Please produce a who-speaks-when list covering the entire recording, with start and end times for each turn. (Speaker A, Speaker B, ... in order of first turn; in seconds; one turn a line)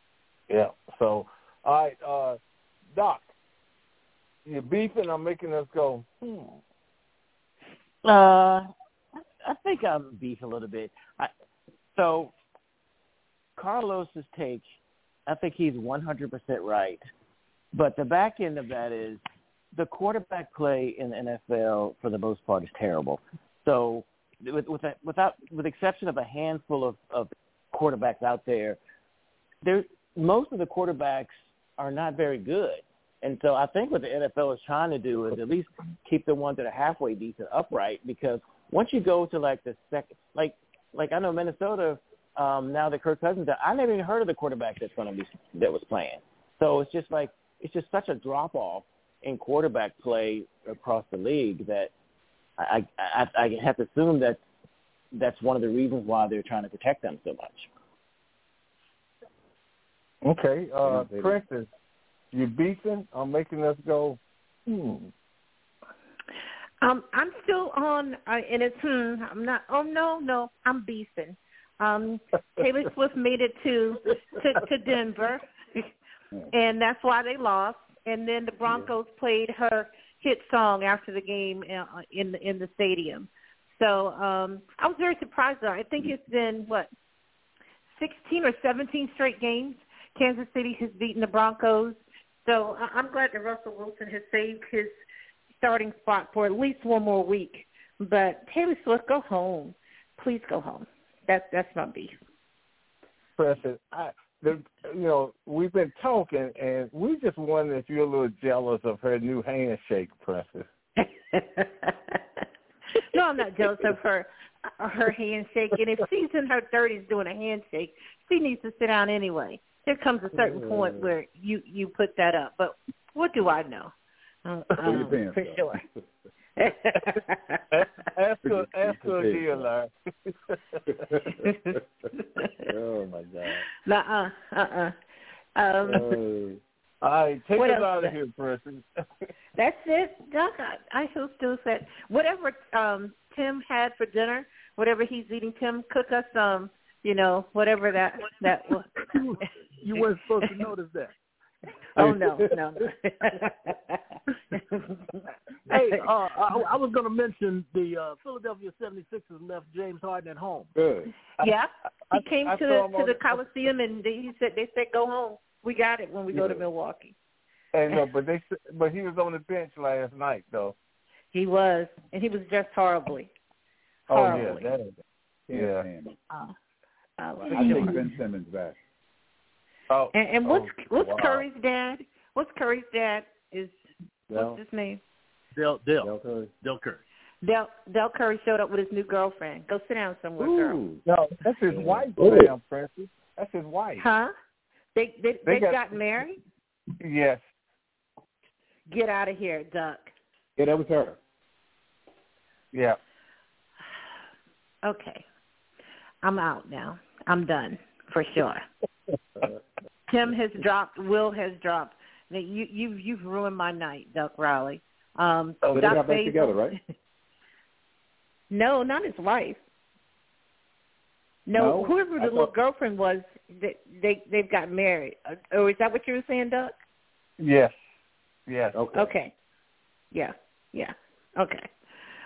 Speaker A: 0.5-2.4
Speaker A: 2.9-3.3
Speaker A: 4.5-6.6
Speaker B: 8.0-8.7
Speaker B: 9.4-11.3
Speaker B: 11.9-12.3
Speaker B: 13.6-14.6
Speaker B: 15.3-17.0
Speaker B: 17.7-19.2
Speaker B: 19.7-28.8
Speaker B: 29.6-51.9
Speaker B: 52.6-54.4
Speaker B: 55.1-57.7
Speaker A: 60.2-61.7
Speaker C: 60.9-61.4
Speaker A: 62.3-65.1
Speaker D: 66.8-75.9
Speaker D: 76.5-86.9
Speaker D: 88.0-94.9
Speaker D: 95.6-102.2
Speaker A: 103.4-110.7
Speaker D: 111.0-112.2
Speaker D: 113.1-123.9
Speaker D: 124.5-125.8
Speaker C: 124.8-126.1
Speaker D: 126.6-127.6
Speaker A: 128.0-131.0
Speaker C: 128.4-129.7
Speaker D: 131.4-132.5
Speaker A: 132.8-133.6
Speaker D: 133.8-134.9
Speaker D: 135.6-136.2
Speaker A: 135.9-138.9
Speaker D: 137.6-138.2
Speaker D: 139.6-148.9
Speaker E: 149.0-151.1
Speaker D: 149.9-150.6
Speaker D: 152.0-154.0
Speaker D: 154.5-155.0
Speaker D: 155.7-156.1
Speaker E: 155.7-160.7
Speaker C: 160.8-161.2
Speaker D: 161.4-167.1
Speaker A: 162.1-163.2
Speaker A: 167.7-170.8
Speaker D: 171.3-173.3
Speaker A: 174.1-174.9
Speaker D: 174.1-174.7
Speaker C: 174.3-174.6
Speaker C: 175.5-176.2
Speaker A: 175.5-175.9
Speaker D: 177.2-178.1
Speaker C: 177.4-178.8
Speaker A: 177.6-177.9
Speaker A: 179.9-181.4
Speaker D: 180.1-183.8
Speaker C: 184.3-184.6
Speaker D: 184.3-185.0
Speaker E: 185.6-187.0
Speaker C: 186.0-186.5
Speaker D: 187.4-190.8
Speaker C: 190.4-191.0
Speaker A: 191.1-194.1
Speaker C: 191.7-192.5
Speaker D: 194.0-194.3
Speaker D: 194.9-196.4
Speaker A: 195.5-195.8
Speaker A: 197.0-197.4
Speaker D: 198.9-200.1
Speaker C: 200.6-201.2
Speaker A: 202.7-203.0
Speaker D: 204.8-205.2
Speaker D: 206.2-208.7
Speaker D: 210.1-216.6
Speaker A: 215.6-216.0
Speaker C: 215.7-216.8
Speaker D: 218.5-219.6
Speaker D: 221.5-226.7
Speaker C: 221.6-222.5
Speaker A: 227.4-227.9
Speaker A: 228.5-228.8
Speaker C: 228.7-229.1
Speaker D: 228.9-229.3
Speaker D: 230.1-231.7